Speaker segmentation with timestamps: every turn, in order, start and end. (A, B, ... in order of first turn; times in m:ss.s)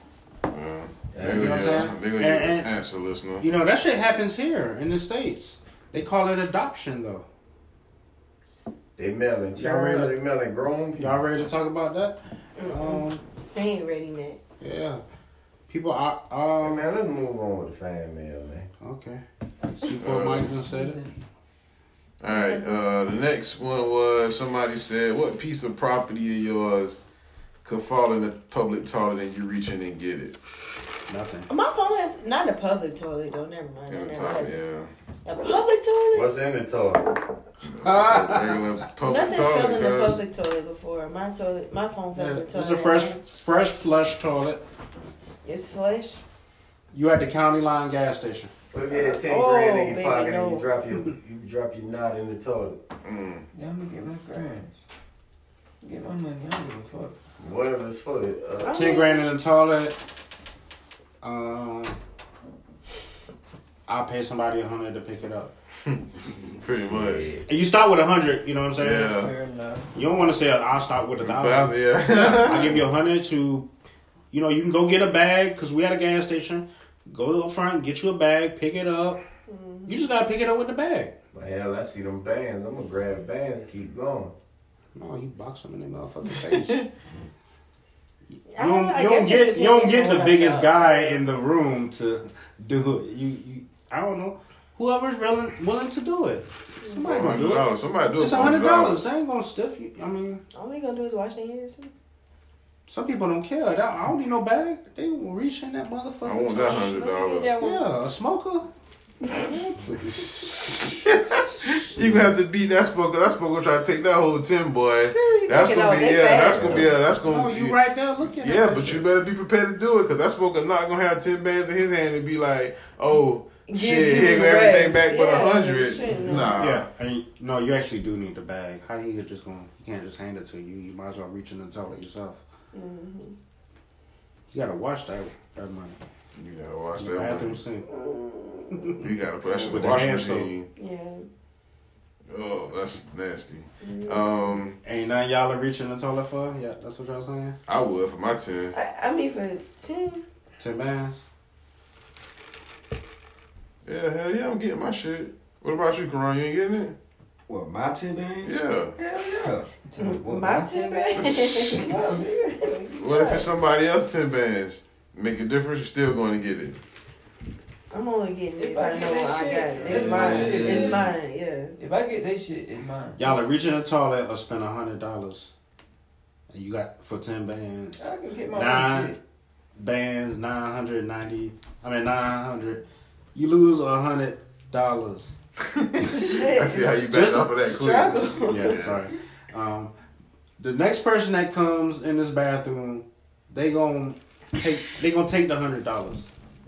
0:00.5-0:03.4 A
0:01.1-0:01.8 B
0:01.2-0:02.7 C
0:03.4-0:07.3 C
0:09.0-0:11.2 B
0:09.5-0:10.2 C
0:11.0-0:13.2 C
0:12.6-0:14.4 D
0:14.6-0:15.0 C
0:15.7-0:16.9 C
0:16.6-0:18.7 B
0:18.8-0:21.0 C
0:20.0-0:20.5 A
0:20.7-0:21.1 E
0:22.2-0:27.0 A
0:22.3-0:22.8 D
0:27.6-0:30.4 A
0:31.1-0:31.5 C
0:31.5-0:34.5 D
0:33.9-0:34.9 A
0:35.2-0:36.4 D
0:36.1-0:37.2 B
0:37.6-0:40.2 A
0:37.8-0:38.8 C
0:39.0-0:43.2 D
0:42.2-0:44.6 C
0:45.4-0:46.2 D
0:46.9-0:48.5 C
0:48.7-0:52.8 B
0:48.9-0:50.7 D
0:53.0-0:53.5 A
0:53.5-0:54.8 E
0:55.8-0:57.2 E
0:57.4-0:58.9 B
0:58.6-0:59.2 D
0:58.7-1:00.0 C
1:01.2-1:02.0 C
1:03.9-1:05.5 C
1:05.9-1:07.3 A
1:06.8-1:07.4 B
1:07.5-1:09.2 C
1:08.8-1:09.3 A
1:09.0-1:09.9 E
1:09.9-1:13.7 C
1:11.2-1:12.9 A
1:14.3-1:19.2 C
1:19.5-1:20.0 D
1:19.9-1:21.2 C
1:21.3-1:24.3 B
1:25.0-1:26.8 C
1:26.4-1:26.9 A
1:28.3-1:40.4 C
1:28.5-1:31.2 D
1:37.1-1:39.1 A
1:40.5-1:41.9 D
1:42.9-1:46.9 C
1:46.2-1:47.6 A
1:46.6-1:47.9 D
1:47.6-1:48.7 C
1:49.3-1:49.7 D
1:49.8-1:50.8 C
1:50.1-2:06.9 A
1:51.6-1:52.3 C
1:54.9-1:56.9 D
1:57.2-1:59.1 C
2:03.7-2:06.5 D
2:06.5-2:12.4 C
2:12.7-2:13.4 D
2:14.5-2:16.0 C
2:16.3-2:17.6 A
2:17.0-2:17.9 C
2:17.9-2:18.9 D
2:18.7-2:19.0 C
2:19.0-2:20.7 A
2:19.6-2:20.5 C
2:20.8-2:21.3 D
2:22.3-2:25.1 A
2:23.8-2:24.6 D
2:24.8-2:27.6 C
2:27.7-2:28.8 A
2:28.7-2:30.2 D
2:30.6-2:31.2 C
2:33.8-2:37.0 A
2:37.5-2:39.7 F
2:38.4-2:39.0 A
2:39.9-2:42.6 E
2:40.0-2:43.5 D
2:41.3-2:41.7 A
2:42.9-2:46.8 A
2:47.9-2:51.8 D
2:48.6-2:51.1 E
2:49.9-2:51.1 F
2:51.8-2:53.4 E
2:53.2-2:55.5 C
2:56.5-2:59.2 C
2:58.0-2:59.2 E
2:59.8-3:02.8 C
3:03.4-3:05.4 C
3:05.7-3:08.9 A
3:06.1-3:08.9 D
3:07.1-3:07.5 C
3:08.5-3:09.9 C
3:10.6-3:16.3 C